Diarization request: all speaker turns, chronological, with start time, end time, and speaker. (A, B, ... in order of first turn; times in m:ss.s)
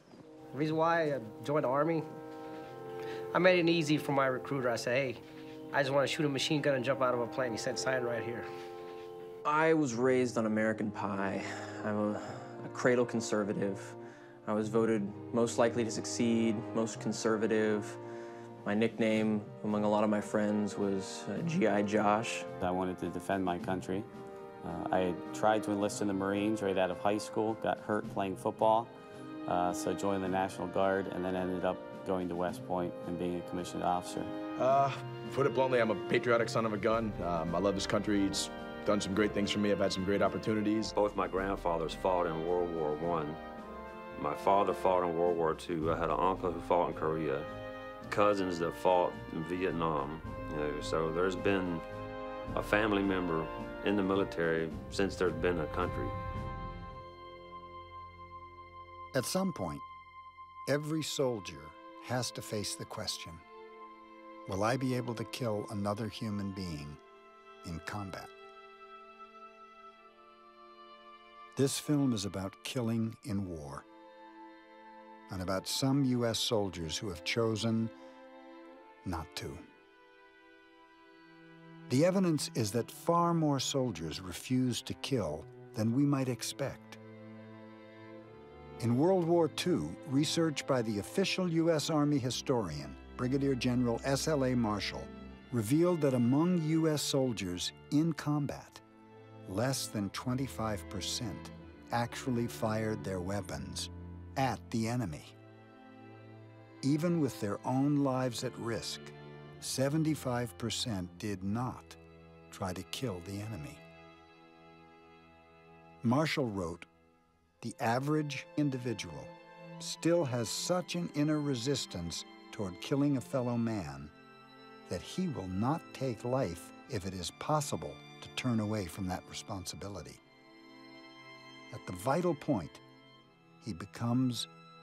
0:00.5-0:02.1 A
0:03.3-0:08.5 A
0:09.4-0:18.0 B
0:18.6-0:22.5 B
0:22.6-0:24.1 C
0:24.6-0:28.9 C
0:29.5-0:34.3 C
0:34.6-0:41.0 D
0:41.0-0:43.4 E
0:44.2-0:47.5 E
0:48.1-0:51.8 E
0:52.5-0:56.2 E
0:59.1-0:59.9 F
1:00.7-1:03.4 F
1:04.5-1:07.0 F
1:07.6-1:08.3 F
1:11.6-1:13.9 F
1:15.3-1:17.9 F
1:19.0-1:19.6 F
1:21.9-1:27.0 F
1:28.8-1:38.8 F
1:39.5-1:45.4 F
1:46.8-1:52.0 F
1:52.5-1:53.8 F
1:56.0-1:56.9 F
1:57.6-2:04.1 F
2:04.9-2:10.2 F
2:11.7-2:12.8 F
2:13.6-2:14.5 F